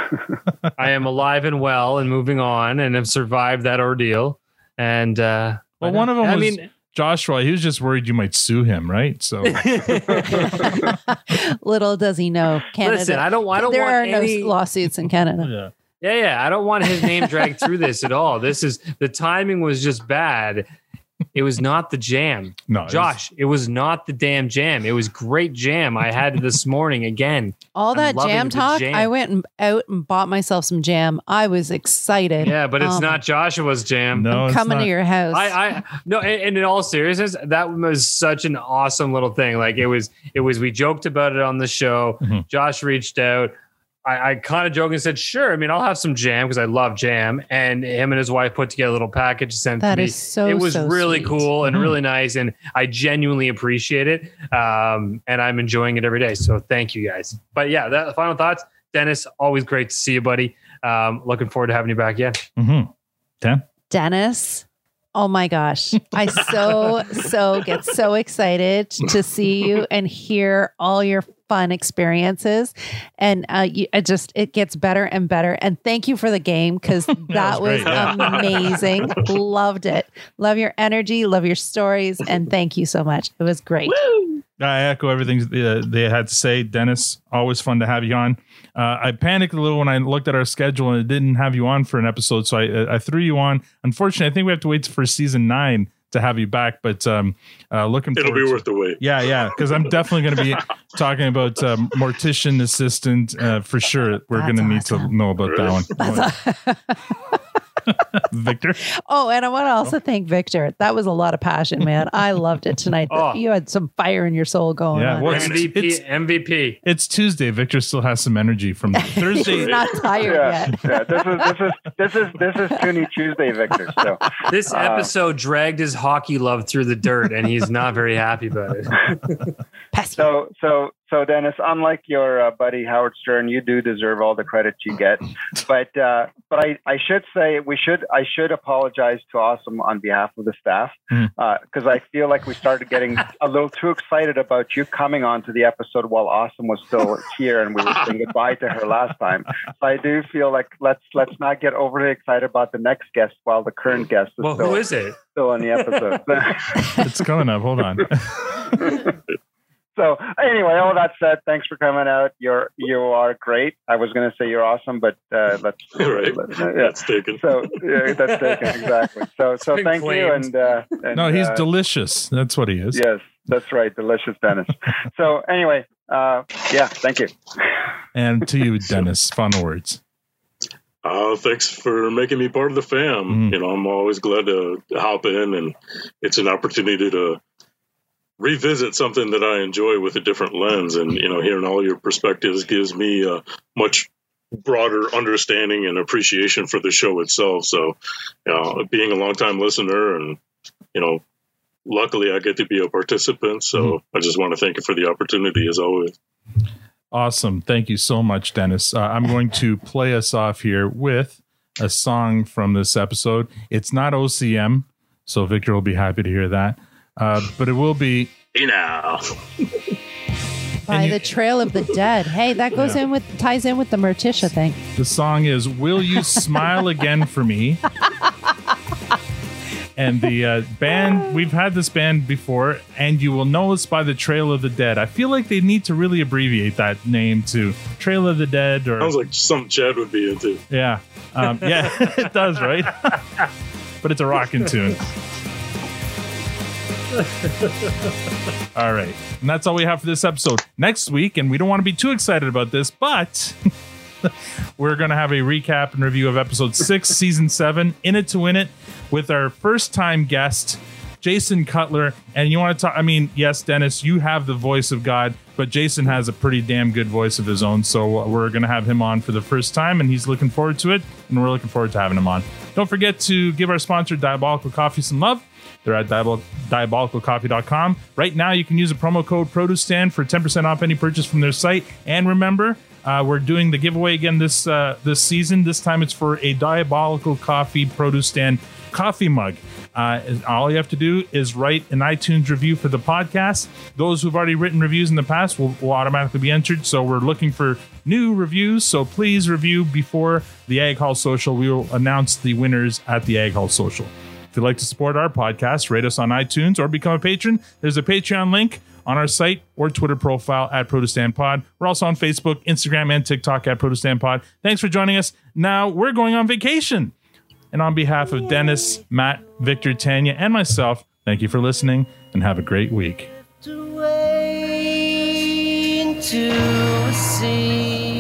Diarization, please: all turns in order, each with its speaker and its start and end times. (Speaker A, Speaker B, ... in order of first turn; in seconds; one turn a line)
Speaker A: 0.8-6.7
Speaker B: 5.8-10.0
Speaker A: 9.4-10.7
Speaker C: 10.9-15.5
Speaker A: 12.8-14.5
Speaker B: 15.4-15.7
Speaker A: 16.0-20.6
Speaker A: 21.3-29.1
Speaker B: 22.7-23.1
Speaker C: 27.7-33.2
Speaker A: 32.4-34.4
Speaker B: 34.1-34.9
Speaker C: 34.3-35.5
Speaker A: 35.3-43.5
Speaker A: 44.0-62.4
Speaker C: 49.8-51.5
Speaker B: 62.6-63.6
Speaker C: 63.9-84.3
Speaker B: 77.1-78.8
Speaker D: 77.8-79.1
Speaker B: 84.6-106.3
Speaker D: 98.2-99.5
Speaker C: 104.3-105.1
Speaker D: 105.5-105.9
Speaker C: 106.0-107.4
Speaker B: 108.2-108.8
Speaker C: 109.1-115.5
Speaker A: 113.1-113.4
Speaker B: 114.9-116.0
Speaker A: 115.3-116.8
Speaker D: 115.3-115.6
Speaker B: 116.8-120.0
Speaker C: 118.9-120.9
Speaker D: 119.5-119.8
Speaker E: 120.2-125.1
Speaker A: 124.5-129.4
Speaker C: 129.9-130.3
Speaker E: 130.2-156.9
Speaker A: 154.4-155.2
Speaker B: 157.0-158.7
Speaker E: 158.8-159.1
Speaker E: 159.9-171.6
Speaker D: 166.0-167.6
Speaker A: 168.2-168.9
Speaker A: 169.7-170.8
Speaker B: 171.1-173.0
Speaker E: 172.9-177.7
Speaker B: 178.1-180.0
Speaker D: 181.0-187.4
Speaker B: 183.3-183.5
Speaker D: 188.4-200.4
Speaker D: 200.9-201.2
Speaker D: 201.8-206.1
Speaker B: 207.1-218.3
Speaker D: 218.5-219.6
Speaker B: 220.9-221.3
Speaker C: 220.9-224.8
Speaker B: 222.7-223.0
Speaker B: 224.9-227.8
Speaker B: 229.9-239.1
Speaker D: 239.0-240.6
Speaker B: 240.7-243.2
Speaker B: 244.0-245.0
Speaker B: 248.7-253.7
Speaker B: 254.2-317.1
Speaker B: 317.7-323.3